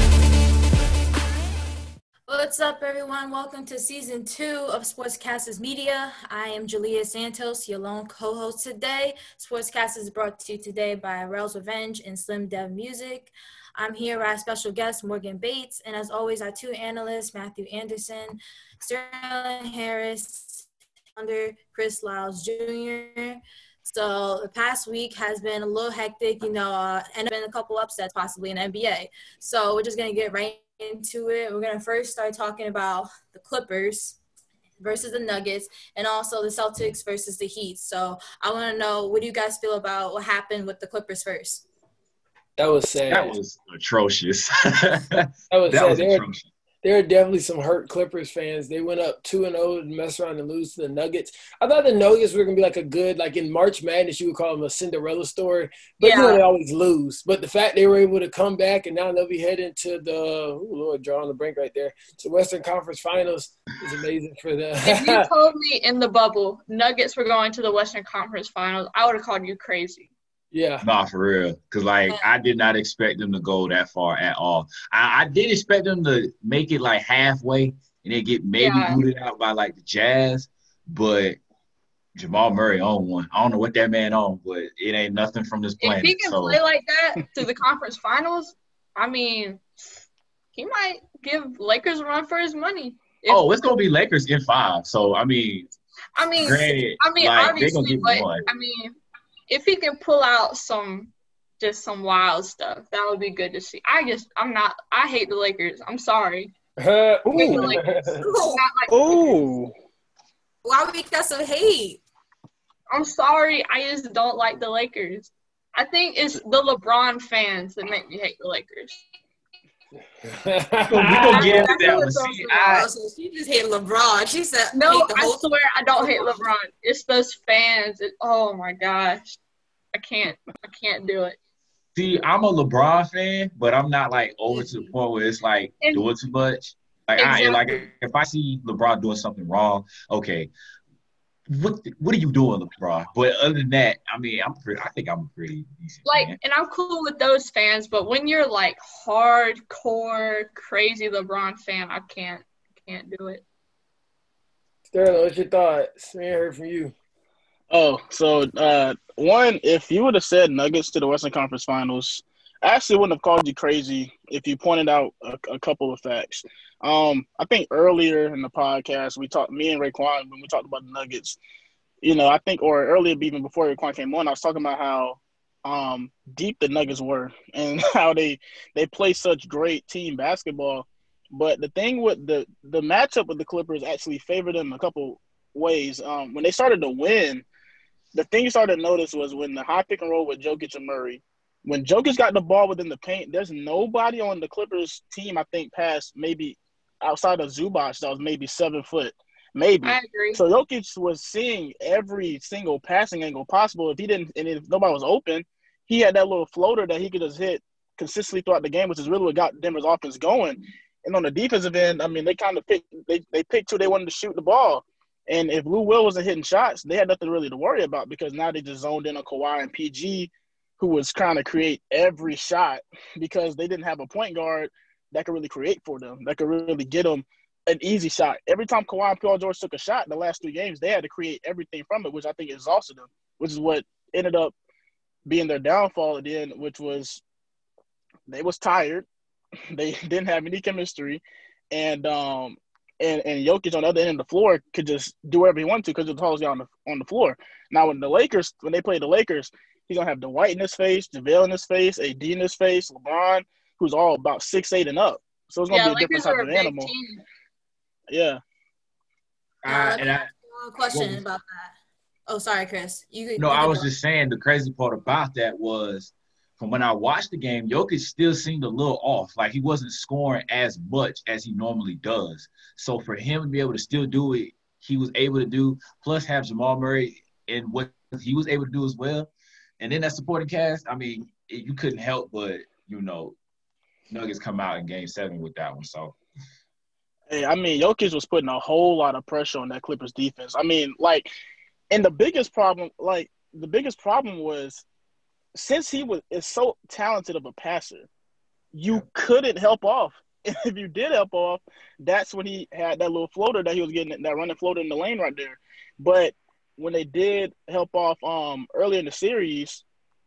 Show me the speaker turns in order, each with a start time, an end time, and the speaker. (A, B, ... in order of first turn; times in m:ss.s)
0:02.3-0:20.6 A
0:21.2-0:34.2 A
0:34.8-0:41.6 A
0:42.6-0:43.3 B
0:43.1-0:46.4 C
0:45.5-0:46.2 B
0:46.8-1:05.3 B
0:56.0-0:56.4 D
1:04.8-1:10.1 D
1:10.5-1:10.8 B
1:10.8-1:21.4 C
1:18.6-1:19.0 D
1:22.1-1:26.6 C
1:25.8-1:29.7 D
1:30.5-1:33.6 D
1:33.3-1:35.7 C
1:36.2-1:39.0 D
1:36.4-1:38.4 C
1:39.5-1:46.5 D
1:46.8-1:48.3 B
1:47.3-1:49.4 D
1:47.3-1:47.8 E
1:48.2-1:48.6 A
1:48.9-1:49.7 E
1:50.6-1:52.0 A
1:52.9-1:59.0 D
2:00.2-2:01.7 B
2:00.9-2:02.9 C
2:01.3-2:02.7 D
2:01.7-2:05.4 A
2:04.7-2:09.4 D
2:06.0-2:06.4 A
2:09.9-2:11.4 D
2:12.0-2:20.5 C
2:17.2-2:17.8 D
2:21.5-2:26.4 C
2:26.0-2:33.4 D
2:34.9-2:36.9 B
2:37.7-2:51.4 E
2:52.0-3:07.4 E
3:08.1-3:54.5 E
3:19.8-3:20.4 D
3:55.2-3:57.2 E
3:58.3-3:59.1 E
3:59.7-4:16.9 E
4:15.7-4:17.2 D
4:18.1-4:18.4 E
4:19.6-4:20.3 C
4:19.6-4:21.7 A
4:20.9-4:21.2 C
4:22.3-4:23.9 A
4:23.4-4:43.4 C
4:44.1-4:46.2 C
4:47.3-4:51.3 E
4:51.9-4:54.8 E
4:55.5-4:58.1 E
4:58.7-5:09.8 E